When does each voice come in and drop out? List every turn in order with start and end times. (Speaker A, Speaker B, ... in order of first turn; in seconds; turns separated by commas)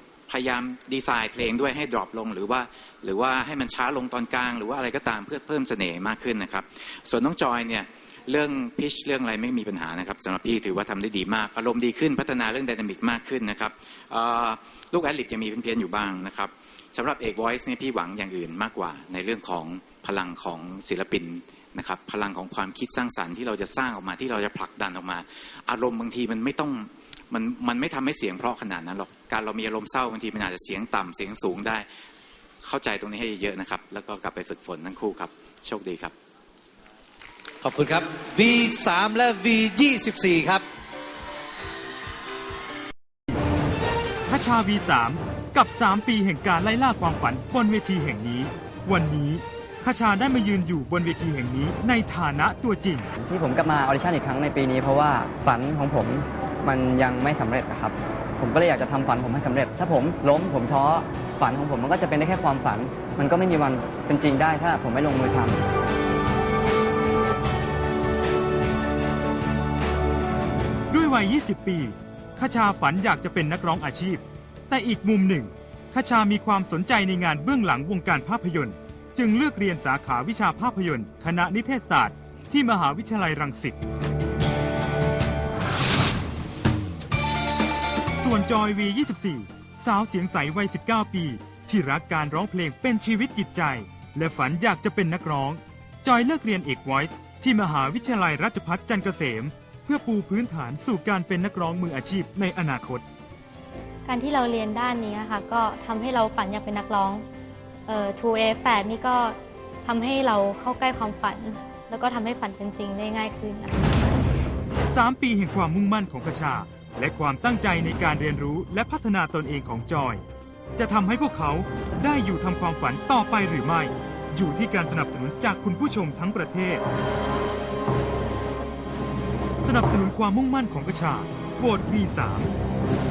Speaker A: 0.3-31.9, Speaker A: 32.6-36.1, Speaker B: 37.6-40.6, Speaker C: 44.3-53.1, Speaker D: 53.2-65.5, Speaker C: 70.9-83.8, Speaker C: 88.2-103.0, Speaker E: 104.1-107.2, Speaker E: 107.9-113.8, Speaker C: 114.9-120.2, Speaker C: 120.8-126.8, Speaker C: 129.6-132.5